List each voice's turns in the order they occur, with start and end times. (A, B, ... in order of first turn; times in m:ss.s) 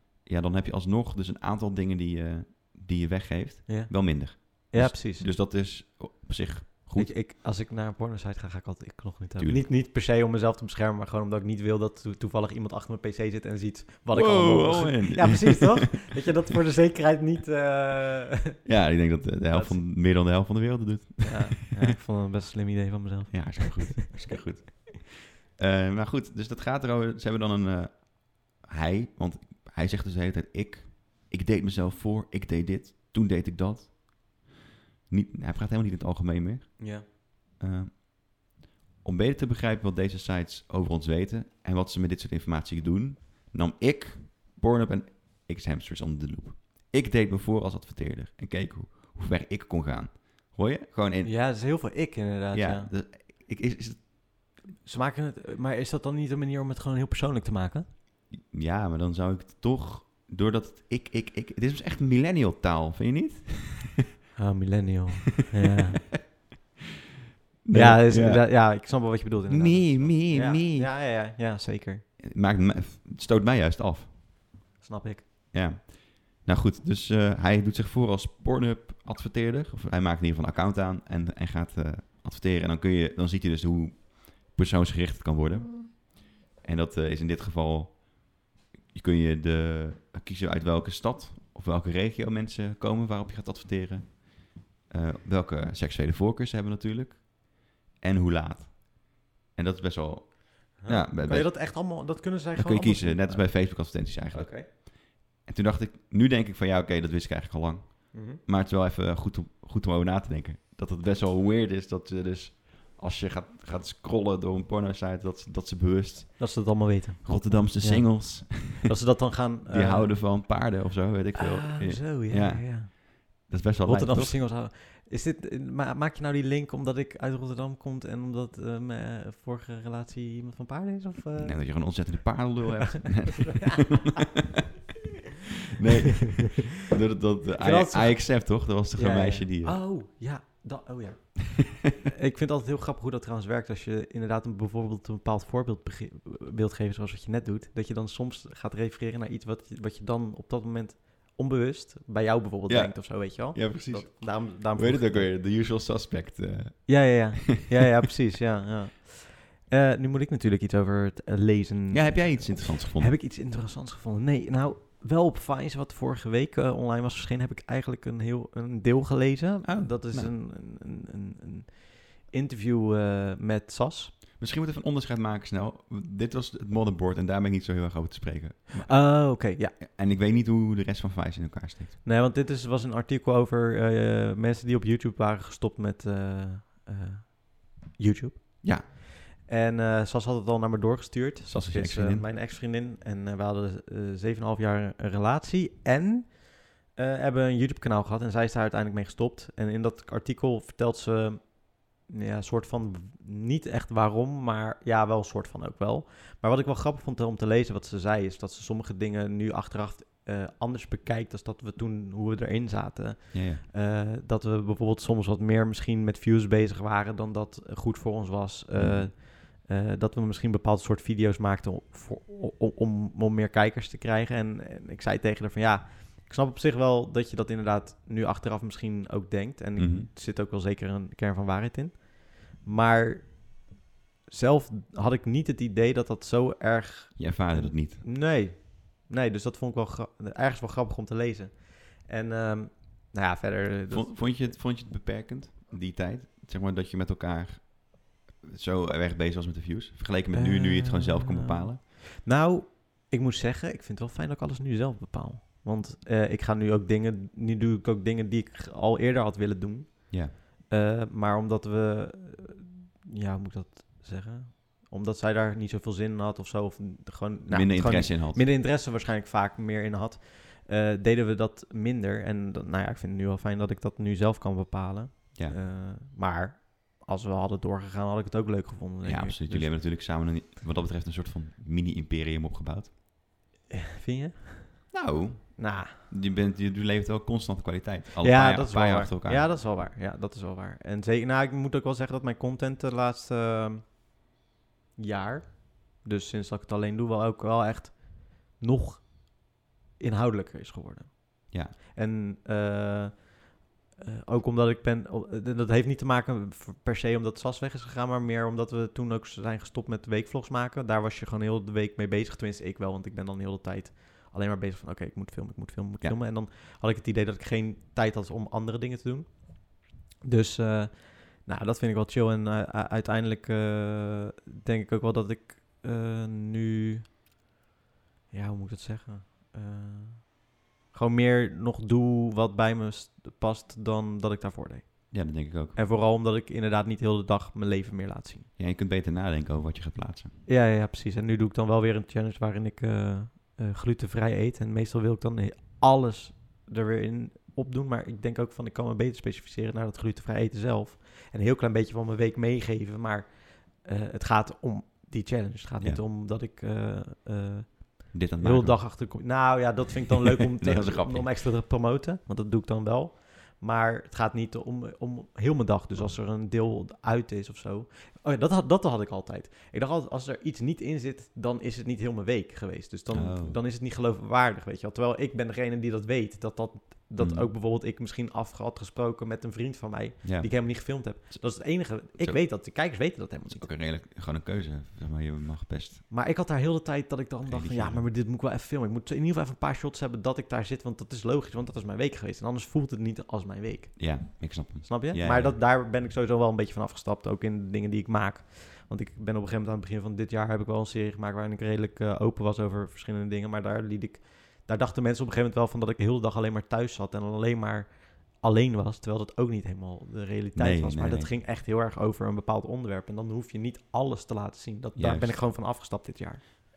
0:00.2-0:07.1 A
0:03.7-0:05.3 B
0:06.9-0:18.7 B
0:09.4-0:09.7 A
0:14.1-0:15.9 A
0:18.6-0:22.0 A
0:19.5-0:19.8 B
0:21.3-0:24.1 B
0:23.3-0:34.3 A
0:35.1-0:38.4 A
0:36.8-0:37.1 B
0:39.0-0:51.5 A
0:51.2-0:52.9 B
0:52.5-0:54.1 A
0:54.8-0:57.9 B
0:58.3-1:04.1 A
1:04.4-1:06.1 B
1:07.6-1:10.9 A
1:07.7-1:12.0 B
1:12.2-1:14.2 A
1:14.8-1:15.3 B
1:15.5-1:42.0 A
1:40.8-1:44.7 B
1:42.6-2:04.4 A
1:48.1-1:48.4 B
1:56.4-2:00.2 B
2:01.4-2:12.2 B
2:11.4-2:14.6 A
2:13.0-2:14.2 B
2:15.8-2:19.8 A
2:17.6-2:35.3 B
2:32.7-2:37.2 A
2:36.9-2:54.2 B
2:41.9-2:43.1 A
2:49.6-2:50.3 A
2:54.4-3:02.0 A
2:58.8-2:59.8 B
3:02.0-3:53.7 B
3:11.5-3:12.3 A
3:33.3-3:33.6 A
3:38.7-3:39.1 A
3:49.8-3:50.1 A
3:54.3-4:04.6 B
3:57.2-3:58.0 A
4:03.9-4:11.8 A
4:10.3-4:39.8 B
4:27.5-4:28.4 A
4:39.0-4:42.9 A
4:43.7-4:45.0 B
4:44.9-4:49.6 A
4:45.6-4:46.0 B
4:48.2-4:54.0 B
4:55.0-5:27.1 B
5:28.3-5:38.5 B
5:35.1-5:35.8 A
5:38.6-5:40.4 A
5:40.5-6:23.7 B
5:58.1-5:59.1 A
6:00.5-6:01.3 A
6:13.1-6:13.6 A
6:17.2-6:17.5 A
6:20.2-6:22.6 A
6:23.4-6:26.0 A
6:26.1-6:56.4 B
6:27.5-6:28.0 A
6:34.0-6:35.6 A
6:50.6-6:51.4 A
6:55.0-6:55.4 A